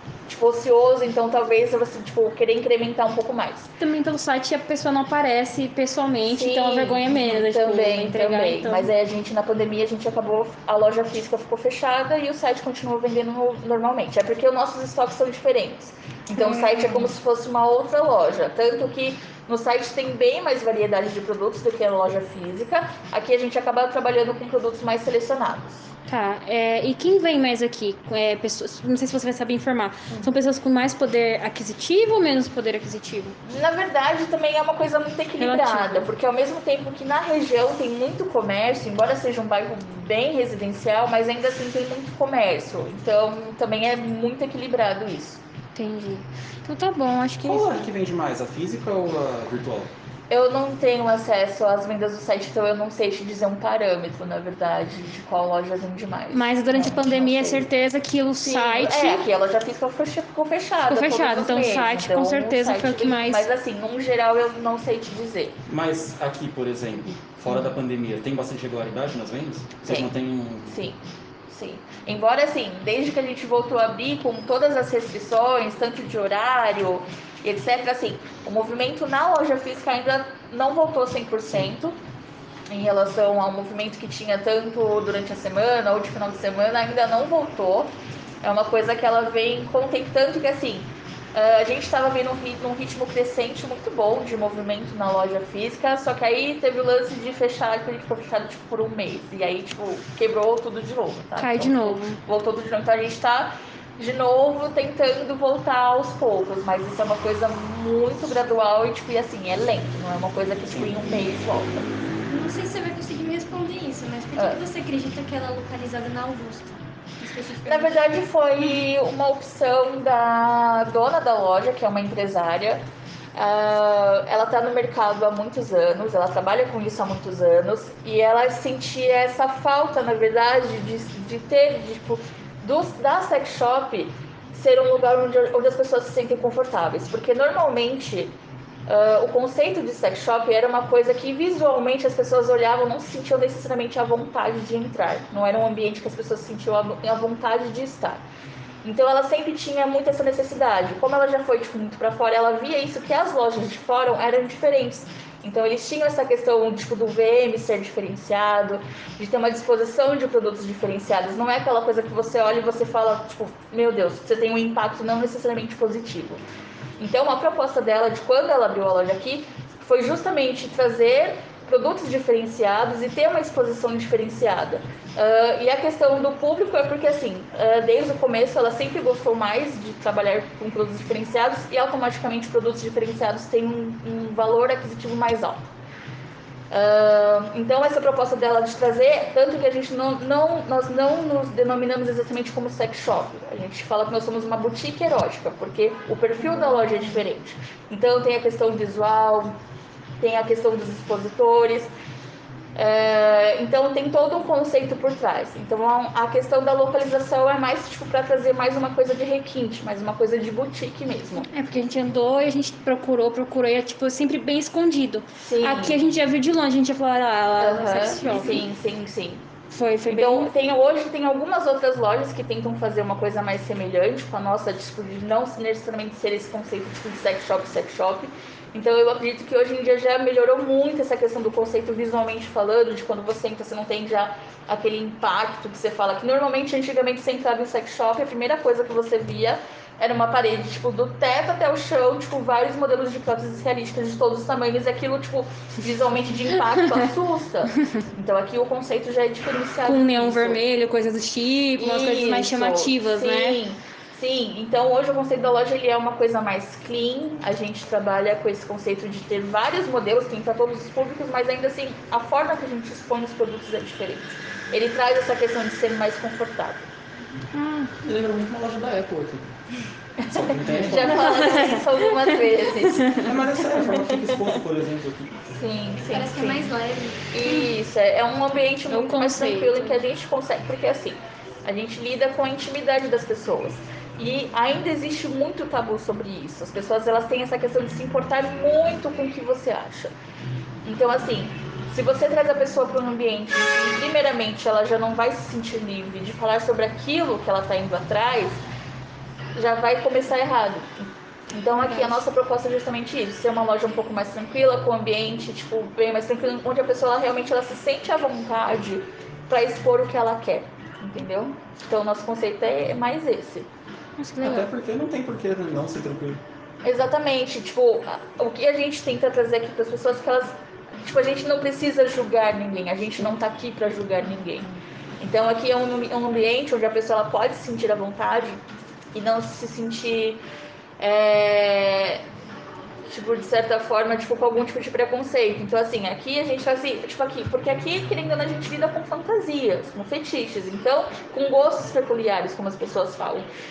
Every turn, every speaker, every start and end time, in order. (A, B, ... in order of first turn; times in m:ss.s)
0:00.3-0:03.7 A
0:03.8-0:08.9 B
0:06.2-0:25.9 A
0:16.4-0:17.1 B
0:26.1-0:33.4 B
0:33.5-0:45.4 A
0:35.4-0:36.1 B
0:45.8-0:47.9 B
0:47.4-0:49.9 C
0:50.3-0:57.7 A
0:56.3-0:59.2 B
0:58.4-1:05.6 A
1:00.9-1:03.5 B
1:05.7-1:10.8 C
1:07.5-1:07.7 A
1:09.8-1:10.1 A
1:10.7-1:22.0 A
1:22.7-1:27.9 A
1:28.4-1:51.9 A
1:41.4-1:42.2 B
1:50.7-1:51.2 C
1:52.3-1:58.1 D
1:54.4-1:54.6 A
1:57.7-2:02.8 A
2:03.4-2:18.4 A
2:18.9-2:28.2 A
2:28.8-2:46.4 A
2:47.0-3:05.7 A
3:06.7-3:19.6 A
3:20.2-3:21.9 A
3:22.8-3:31.5 A
3:31.5-3:38.6 B
3:35.4-3:36.1 A
3:37.6-3:39.4 A
3:39.7-3:40.5 B
3:40.1-4:10.6 A
4:09.8-4:13.6 B
4:11.8-4:26.9 A
4:27.5-4:27.9 B
4:28.0-4:29.5 C
4:30.2-4:33.6 A
4:30.3-4:31.5 C
4:31.1-4:32.0 B
4:33.2-4:35.4 C
4:35.5-4:36.7 A
4:36.1-4:37.7 D
4:37.3-4:50.1 A
4:38.9-4:40.0 B
4:50.8-4:58.6 A
4:59.6-5:13.7 A
5:01.8-5:02.2 B
5:14.2-5:14.7 B
5:14.4-5:16.4 C
5:16.8-5:24.7 A
5:25.2-5:28.6 A
5:29.1-5:30.4 A
5:31.0-5:32.2 A
5:33.1-5:43.5 A